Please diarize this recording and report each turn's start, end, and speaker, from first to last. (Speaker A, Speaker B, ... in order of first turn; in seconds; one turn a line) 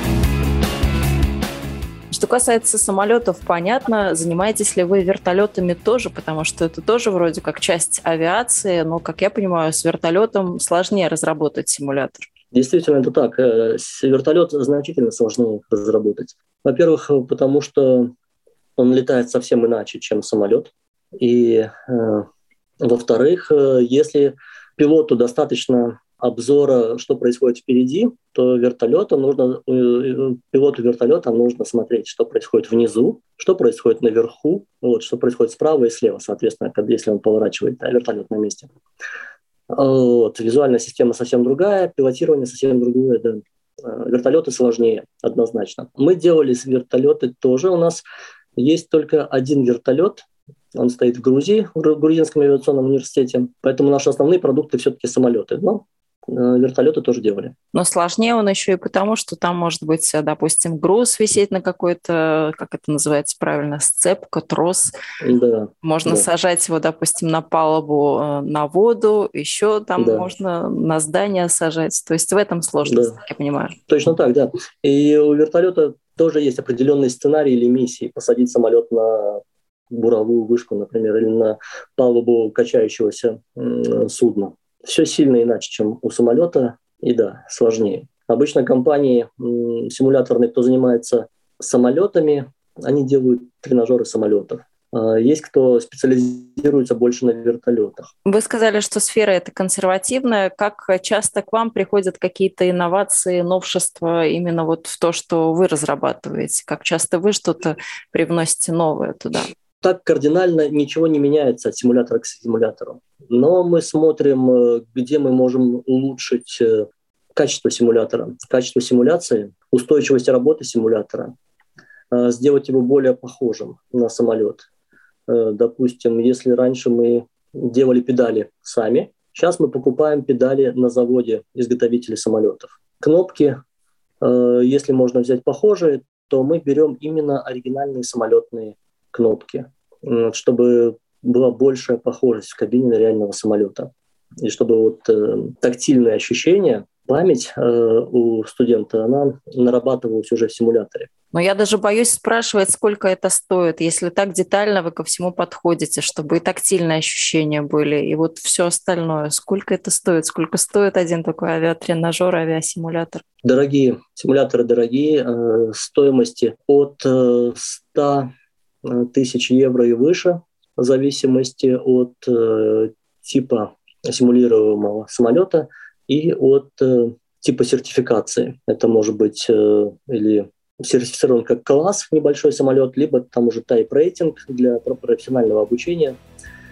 Speaker A: 2.1-12.3
Speaker B: 12.5-18.1
Speaker B: 18.8-22.3
Speaker B: 22.8-38.7
Speaker B: 39.7-48.0
Speaker B: 48.6-50.2
Speaker B: 50.7-57.5
Speaker A: 57.7-64.9
Speaker B: 65.2-66.3
Speaker A: 65.8-73.8
Speaker B: 70.0-70.3
Speaker B: 72.8-73.2
Speaker B: 73.9-98.1
Speaker A: 98.2-109.5
Speaker B: 109.8-121.3
Speaker B: 122.1-124.7
Speaker B: 125.3-133.6
Speaker B: 134.2-151.1
Speaker A: 151.3-163.2
Speaker B: 163.4-168.3
Speaker B: 168.8-186.2